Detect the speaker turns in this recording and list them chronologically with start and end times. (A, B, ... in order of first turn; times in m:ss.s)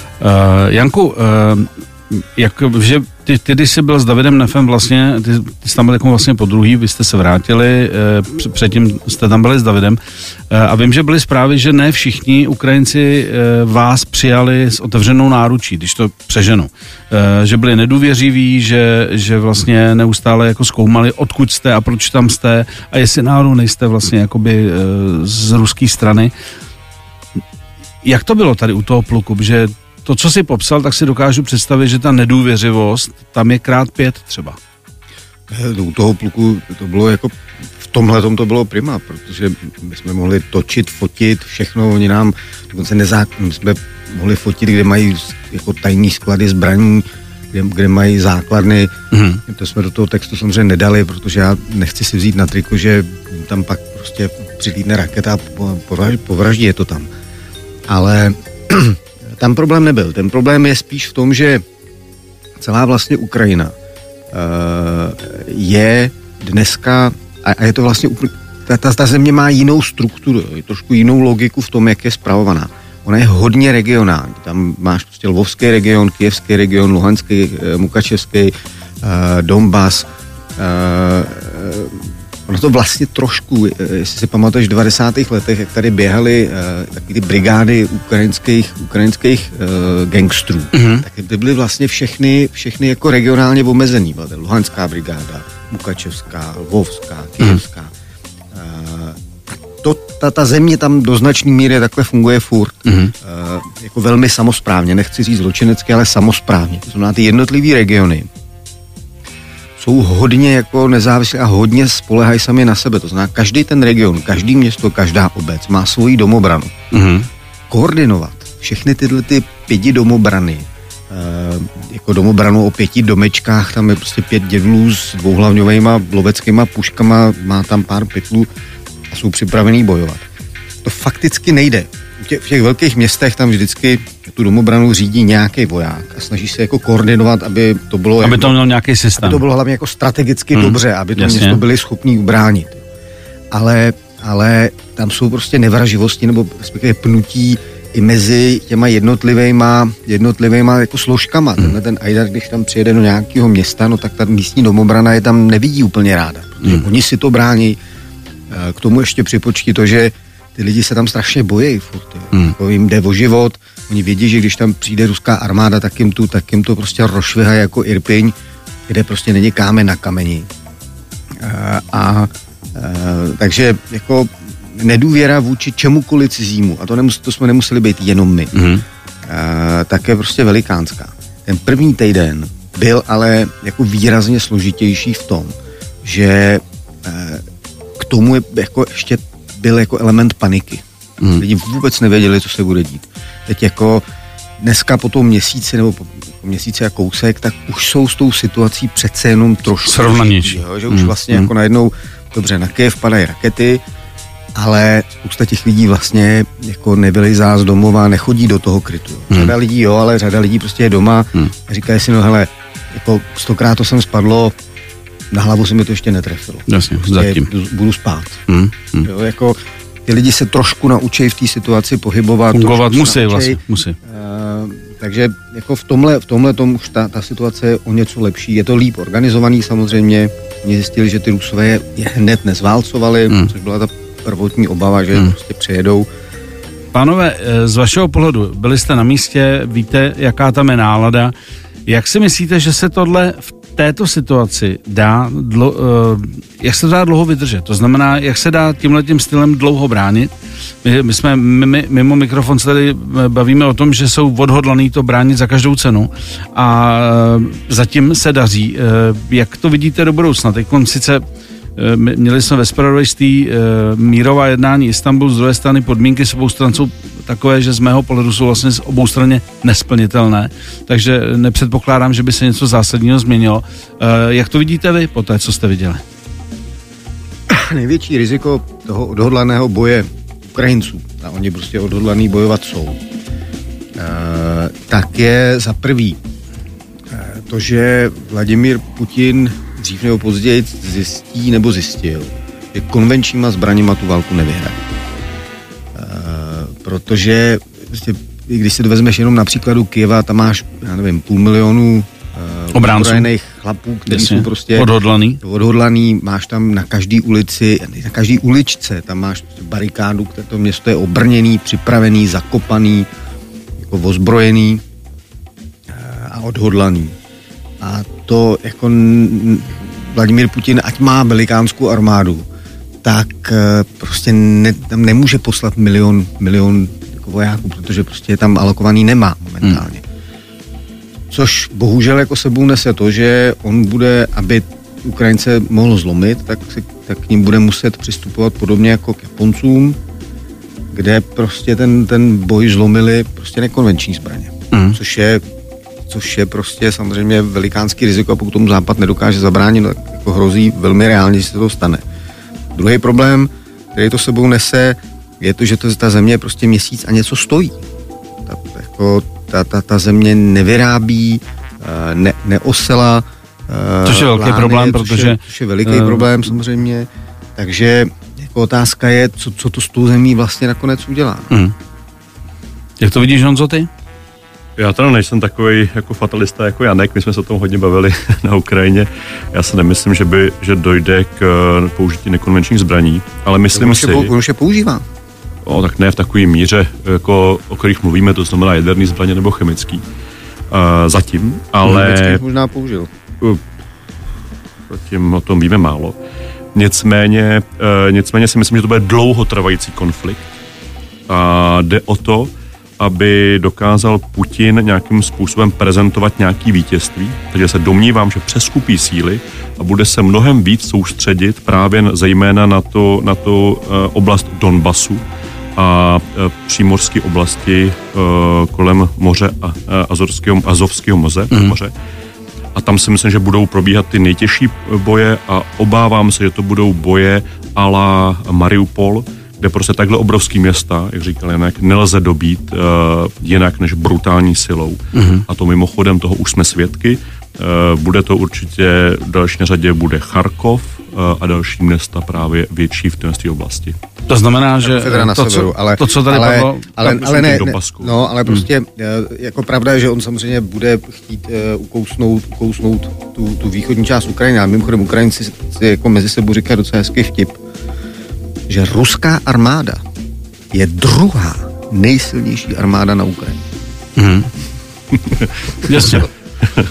0:00.2-0:10.0 A
0:10.5-0:26.3 A
0:28.0-0:34.6 A
0:35.5-0:57.1 B
0:49.1-0:49.4 A
0:57.9-1:01.6 B
1:02.6-1:03.7 B
1:04.3-1:20.1 B
1:20.6-1:37.9 B
1:30.7-1:31.1 A
1:38.5-1:39.2 B
1:39.8-1:48.3 B
1:42.9-1:43.1 A
1:49.8-1:56.7 B
1:56.9-1:57.3 A
1:57.7-2:08.5 B
2:09.1-2:10.2 B
2:10.8-2:18.6 B
2:18.2-2:19.4 A
2:19.2-2:22.8 B
2:20.6-2:21.6 A
2:23.5-2:37.8 B
2:38.5-2:48.3 B
2:48.9-2:50.5 B
2:51.4-2:58.5 B
2:58.5-2:58.8 A
2:59.3-3:05.5 B
3:06.0-3:07.4 B
3:08.0-3:14.0 B
3:14.6-3:23.8 B
3:19.8-3:21.5 A
3:24.6-3:34.5 B
3:35.3-3:38.4 B
3:36.7-3:37.5 A
3:38.5-3:39.1 A
3:39.0-3:56.1 B
3:42.5-3:44.0 A
3:56.9-4:01.3 A
4:01.9-4:10.3 A
4:10.8-4:21.2 A
4:21.8-4:36.0 A
4:37.5-4:43.0 B
4:44.0-4:46.2 B
4:47.1-4:54.8 B
4:56.0-5:04.9 B
5:02.7-5:03.3 A
5:04.1-5:05.4 A
5:05.4-5:13.1 B
5:13.8-5:14.8 B
5:15.9-5:17.1 B
5:17.8-5:22.4 B
5:23.0-5:30.0 B
5:31.3-5:40.0 B
5:40.9-5:45.4 B
5:44.7-5:45.0 A
5:46.1-5:52.0 B
5:52.7-5:57.8 B
5:58.5-6:11.5 B
6:04.0-6:06.3 A
6:13.0-6:13.9 A
6:14.8-6:24.3 C
6:23.7-6:25.0 B
6:25.7-6:30.0 C
6:30.7-6:32.4 C
6:31.8-6:33.1 B
6:34.9-6:36.2 C
6:36.8-6:40.5 C
6:41.3-6:55.2 C
6:55.8-7:01.9 C
7:02.8-7:24.0 C
7:15.1-7:15.5 A
7:24.3-7:27.6 A
7:24.8-7:37.6 B
7:27.1-7:28.2 C
7:38.7-7:40.0 B
7:40.7-7:43.6 B
7:44.2-7:44.5 A
7:45.8-7:46.3 A